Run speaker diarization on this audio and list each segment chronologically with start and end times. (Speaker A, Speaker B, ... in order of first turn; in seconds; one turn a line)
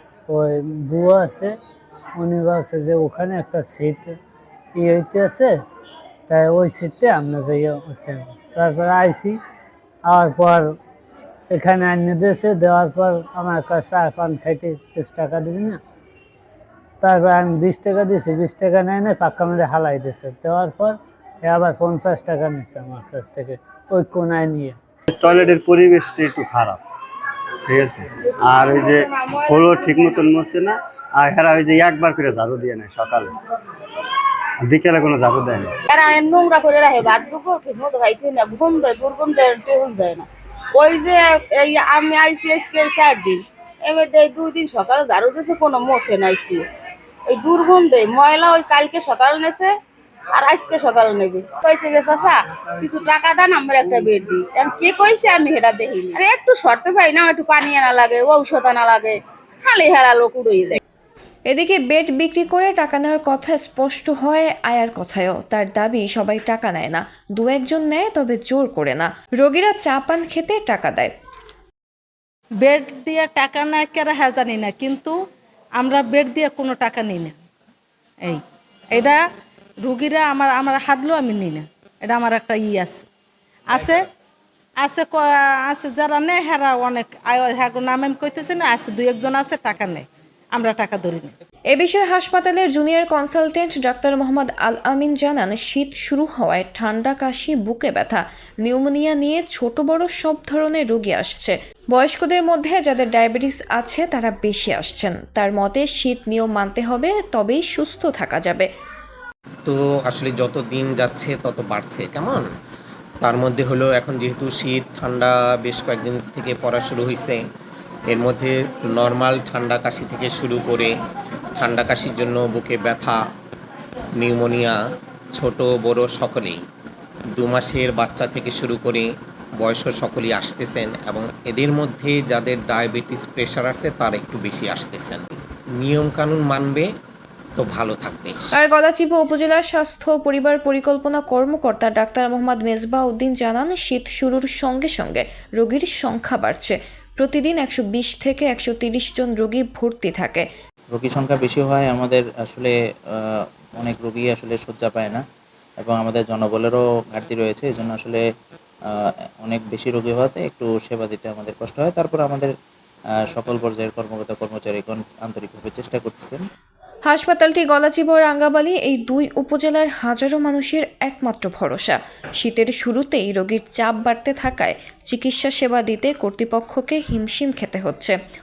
Speaker A: 0.3-1.5
Speaker A: 2.2-4.1
Speaker A: 4.7-5.5
Speaker A: 6.3-9.3
Speaker A: 10.1-10.7
Speaker A: 11.5-15.8
Speaker A: 17.0-24.8
Speaker B: 25.1-26.8
Speaker B: 27.7-33.3
Speaker B: 34.6-35.8
Speaker C: 35.9-46.6
Speaker C: 47.3-49.7
Speaker C: 50.4-60.8
Speaker D: 61.5-71.1
Speaker E: 72.6-75.2
Speaker E: 75.8-77.4
Speaker E: 78.2-79.2
Speaker E: 79.8-83.1
Speaker E: 83.7-84.0
Speaker E: 84.8-91.3
Speaker D: 91.7-108.7
Speaker F: 109.7-112.5
Speaker F: 113.2-117.4
Speaker F: 118.1-120.9
Speaker F: 121.6-123.2
Speaker F: 124.2-124.7
Speaker F: 125.4-126.6
Speaker F: 127.4-129.1
Speaker F: 129.6-136.9
Speaker F: 137.6-138.3
Speaker D: 138.5-150.4
Speaker G: 150.9-153.1
Speaker G: 153.8-155.2
Speaker G: 155.8-158.2
Speaker G: 159.4-162.5
Speaker G: 163.3-166.4
Speaker D: 167.1-178.2